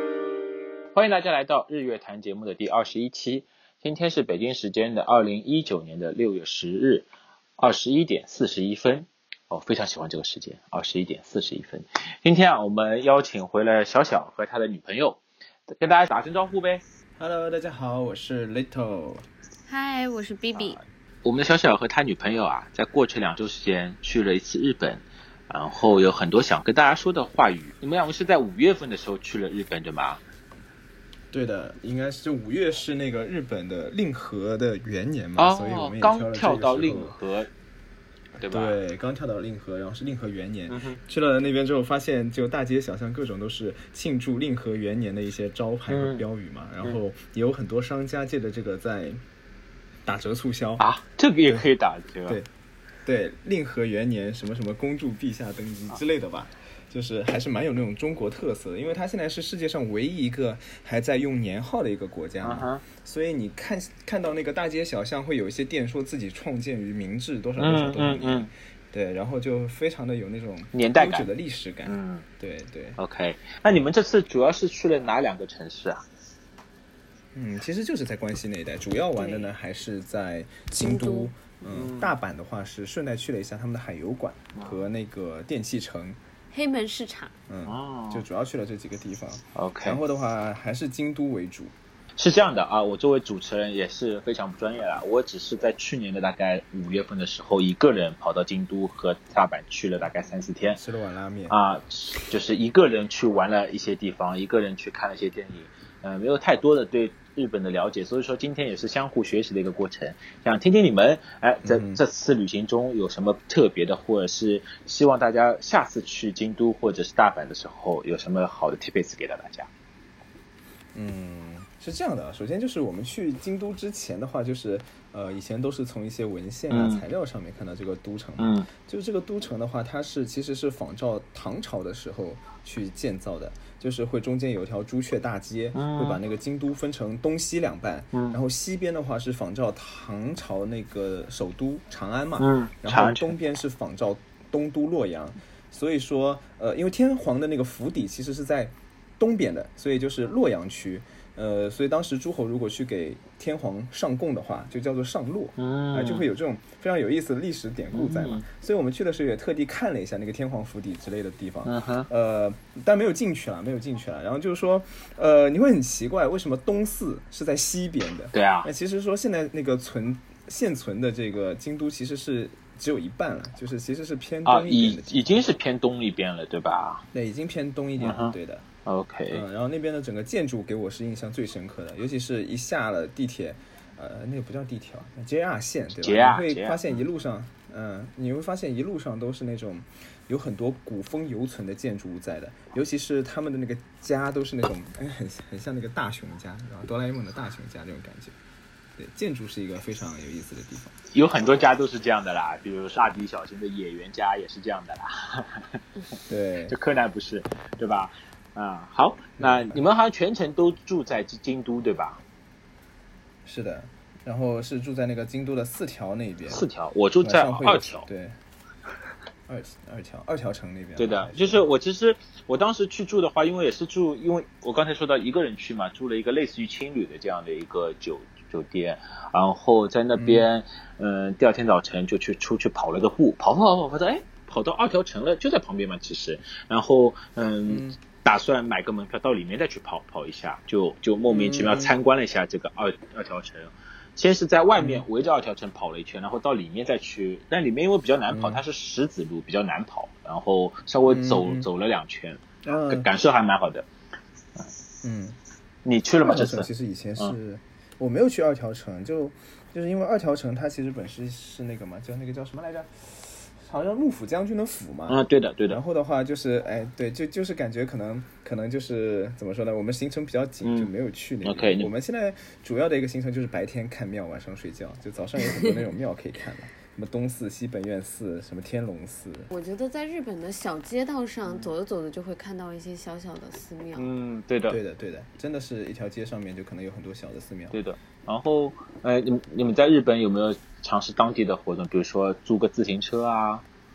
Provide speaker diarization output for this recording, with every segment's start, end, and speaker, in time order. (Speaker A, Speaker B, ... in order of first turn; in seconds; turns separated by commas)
Speaker A: 0.9-7.0, Speaker A: 7.6-16.8, Speaker B: 17.2-19.3, Speaker C: 19.7-20.8, Speaker A: 20.6-30.2, Speaker B: 31.3-37.1, Speaker A: 35.4-37.5, Speaker A: 38.4-38.8, Speaker B: 38.4-49.2, Speaker A: 40.7-41.0, Speaker A: 45.9-46.2, Speaker B: 50.0-50.9, Speaker A: 50.8-52.4, Speaker B: 53.0-73.0, Speaker A: 62.4-62.8, Speaker A: 67.6-68.5, Speaker A: 70.7-71.3, Speaker A: 71.8-72.2, Speaker A: 73.0-76.0, Speaker B: 77.3-86.2, Speaker C: 79.2-79.5, Speaker C: 80.8-81.3, Speaker A: 81.7-82.1, Speaker C: 86.5-87.3, Speaker B: 87.5-91.7, Speaker A: 87.7-88.2, Speaker A: 89.5-90.0, Speaker A: 92.2-100.8, Speaker B: 100.8-101.6, Speaker A: 101.5-119.7, Speaker B: 111.6-112.0, Speaker B: 120.9-175.5, Speaker A: 126.7-127.0, Speaker A: 128.4-128.7, Speaker A: 135.7-136.2, Speaker A: 138.1-138.4, Speaker A: 142.4-143.3, Speaker A: 155.6-156.2, Speaker A: 157.9-158.4, Speaker A: 161.7-162.1, Speaker A: 168.3-168.7, Speaker A: 174.4-177.0, Speaker B: 177.1-178.7, Speaker A: 178.0-178.3, Speaker A: 178.8-179.4, Speaker B: 179.3-198.3, Speaker A: 186.0-187.0, Speaker B: 199.0-201.0, Speaker A: 201.1-205.8, Speaker B: 206.3-206.8, Speaker A: 206.7-212.2, Speaker B: 209.4-209.8, Speaker B: 213.4-216.7, Speaker A: 216.5-218.1, Speaker B: 217.2-218.3, Speaker B: 219.5-221.7, Speaker A: 221.0-253.8, Speaker B: 230.2-230.5, Speaker B: 237.7-238.0, Speaker B: 241.3-241.9, Speaker B: 244.8-245.0, Speaker B: 248.3-248.6, Speaker B: 251.1-251.7, Speaker B: 252.6-253.1, Speaker B: 255.0-255.4, Speaker A: 255.8-257.3, Speaker B: 256.2-279.5, Speaker A: 265.1-265.8, Speaker A: 270.6-270.9, Speaker A: 271.4-271.9, Speaker C: 279.5-284.1, Speaker A: 283.9-284.8, Speaker B: 284.7-287.8, Speaker A: 287.7-293.6